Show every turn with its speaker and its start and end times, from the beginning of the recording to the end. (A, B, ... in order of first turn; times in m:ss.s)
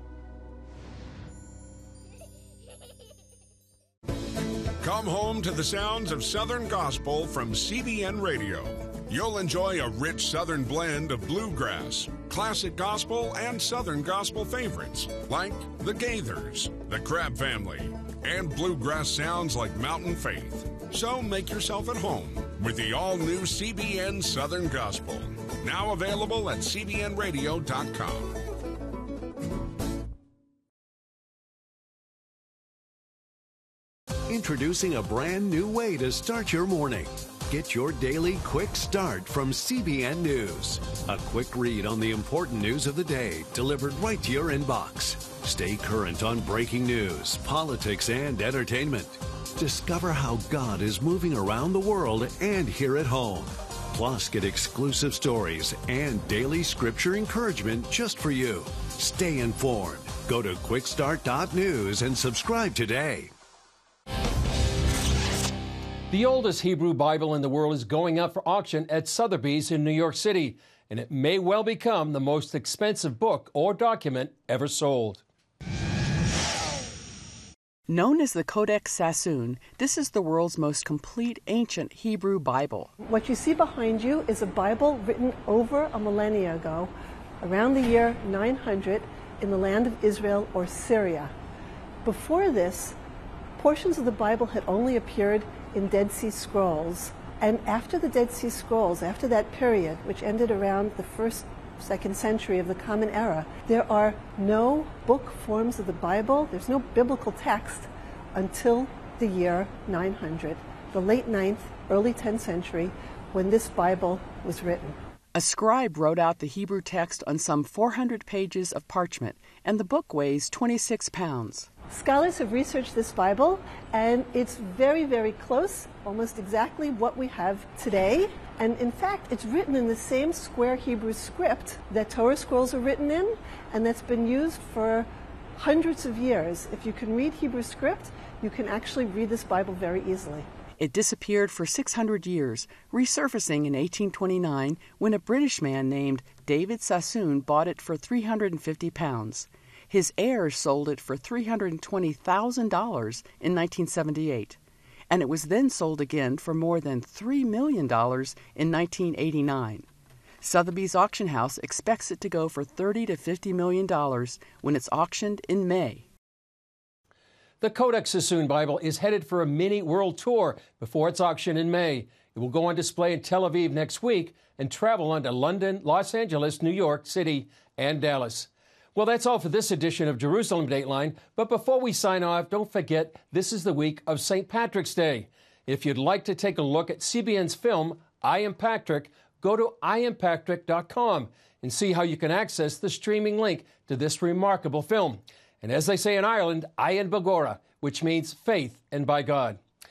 0:04.8-0:28.4 A
0:34.3-1:03.3 B
1:06.1-1:15.2 C
1:17.9-1:22.9 D
1:23.0-1:31.3 E
1:32.0-1:33.0 E
1:33.6-1:55.0 E
1:55.3-2:01.7 D
2:01.9-2:20.5 E
2:20.8-2:34.6 D
2:35.1-2:39.9 D
2:40.4-2:46.0 D
2:47.6-3:19.6 C